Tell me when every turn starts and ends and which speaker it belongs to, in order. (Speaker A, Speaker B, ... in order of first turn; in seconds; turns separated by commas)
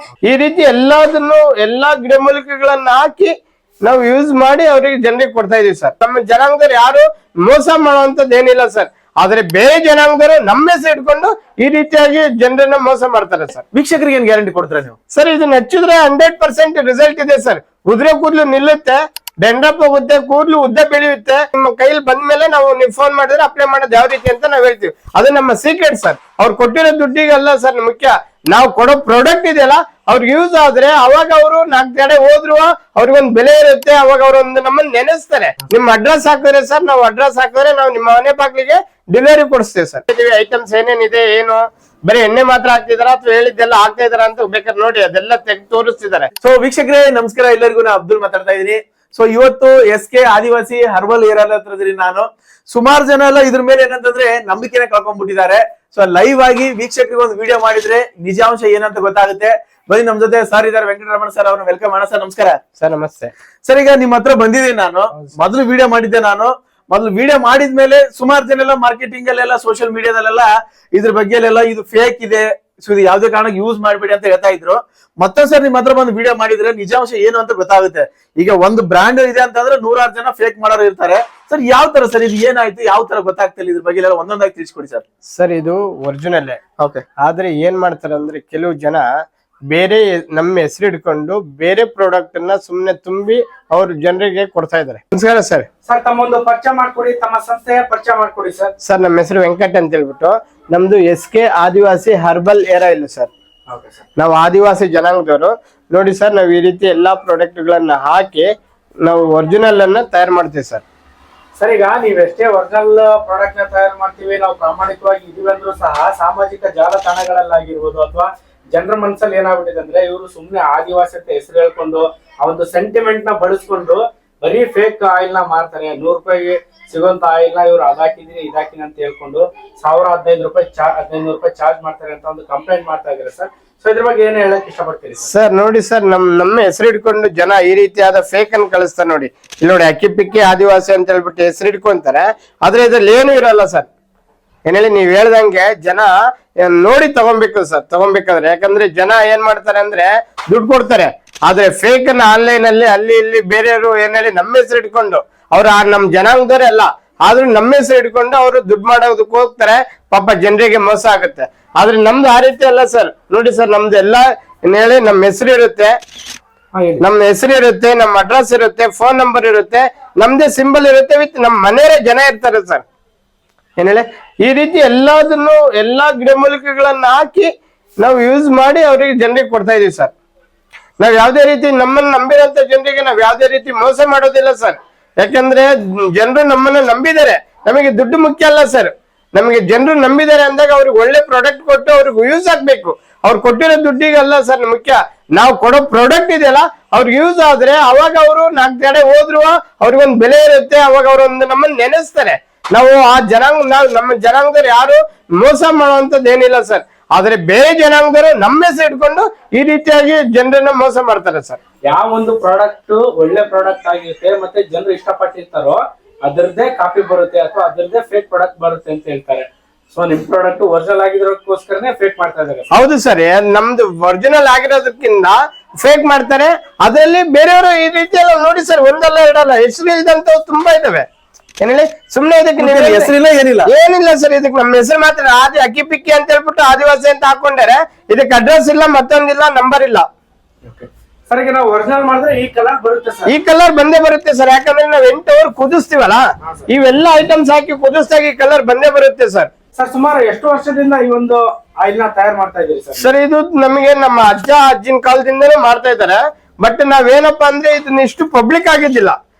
Speaker A: 0.3-3.3, Speaker A: 3.9-13.6, Speaker B: 13.7-15.0, Speaker A: 15.1-46.3, Speaker B: 46.4-62.6, Speaker A: 62.8-63.3, Speaker B: 63.6-85.0, Speaker A: 85.4-86.6, Speaker B: 86.8-87.0, Speaker A: 87.2-89.1, Speaker A: 89.7-95.7, Speaker C: 95.9-98.7, Speaker A: 98.8-103.3, Speaker C: 103.7-104.0, Speaker A: 104.2-108.5, Speaker A: 109.0-110.8, Speaker C: 111.6-135.3, Speaker A: 135.2-143.9, Speaker A: 144.7-146.1, Speaker A: 146.6-165.9, Speaker C: 166.8-167.0, Speaker A: 167.0-172.8, Speaker A: 173.8-177.5, Speaker A: 178.0-180.1, Speaker A: 181.0-211.6, Speaker C: 211.9-222.7, Speaker A: 222.7-231.1, Speaker A: 231.6-233.1, Speaker B: 232.6-233.7, Speaker A: 233.7-240.1, Speaker C: 240.7-243.3, Speaker A: 243.3-249.5, Speaker C: 249.8-253.0, Speaker A: 253.0-259.1